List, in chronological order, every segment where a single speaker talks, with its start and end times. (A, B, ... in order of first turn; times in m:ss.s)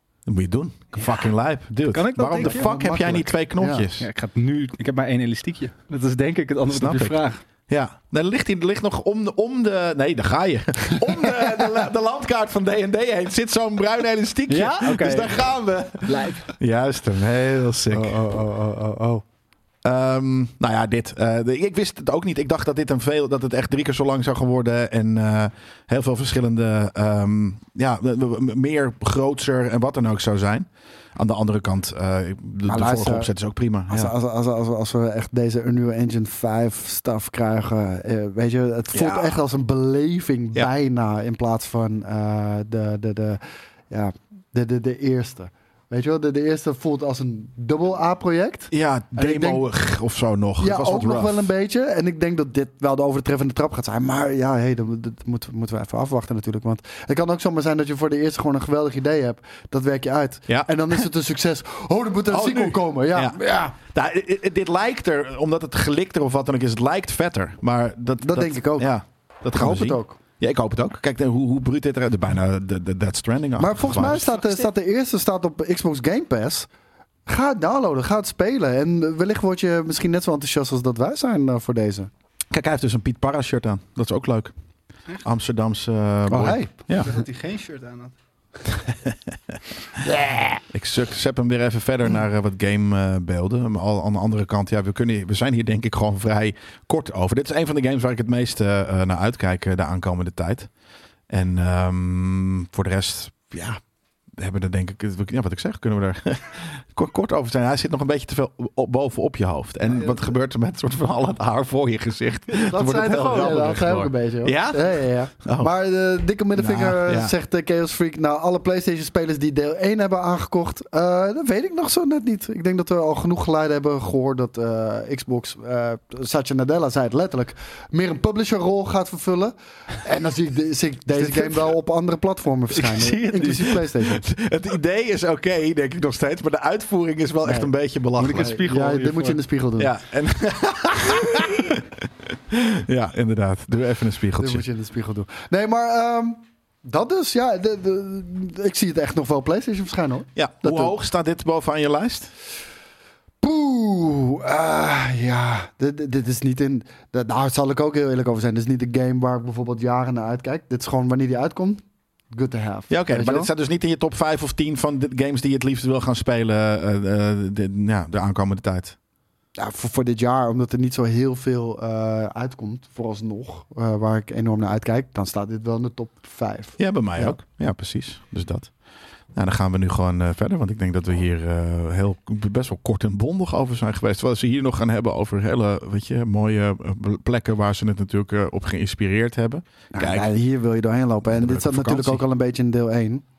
0:00.3-0:04.1 A
0:01.9-0:02.7 B
0:02.4-0:03.9 C
0:04.0-0:07.4 B
0:06.7-0:07.2 A
0:07.7-0:18.2 A
0:11.1-0:11.6 C
0:14.5-0:15.4 B
0:16.0-0:16.5 B
0:17.9-0:19.2 C
0:19.8-0:34.1 A
0:32.7-0:33.3 C
0:33.9-0:49.6 C
0:38.9-0:39.4 A
0:48.7-0:51.5 A
0:50.6-1:03.8 C
1:02.3-1:14.3 A
1:08.2-1:08.9 C
1:09.5-1:10.2 C
1:13.6-1:16.7 C
1:14.1-1:14.6 B
1:17.3-1:22.1 C
1:22.5-1:24.5 A
1:25.2-1:27.1 A
1:26.3-1:26.7 C
1:27.0-1:28.1 B
1:28.8-1:29.6 A
1:30.0-1:30.6 C
1:30.7-1:40.7 A
1:41.3-1:43.8 A
1:44.4-1:55.7 A
1:52.5-2:14.3 C
1:56.6-1:57.3 A
2:12.7-2:13.9 B
2:14.0-2:18.6 A
2:17.4-2:17.7 C
2:18.2-2:19.4 B
2:18.4-2:19.9 C
2:19.8-2:24.6 A
2:24.4-2:31.0 C
2:30.4-2:32.3 A
2:33.4-2:43.5 C
2:42.9-2:49.0 A
2:49.6-2:57.4 C
2:56.8-2:58.7 A
2:59.4-3:10.3 A
3:09.9-3:13.2 C
3:11.3-3:12.2 A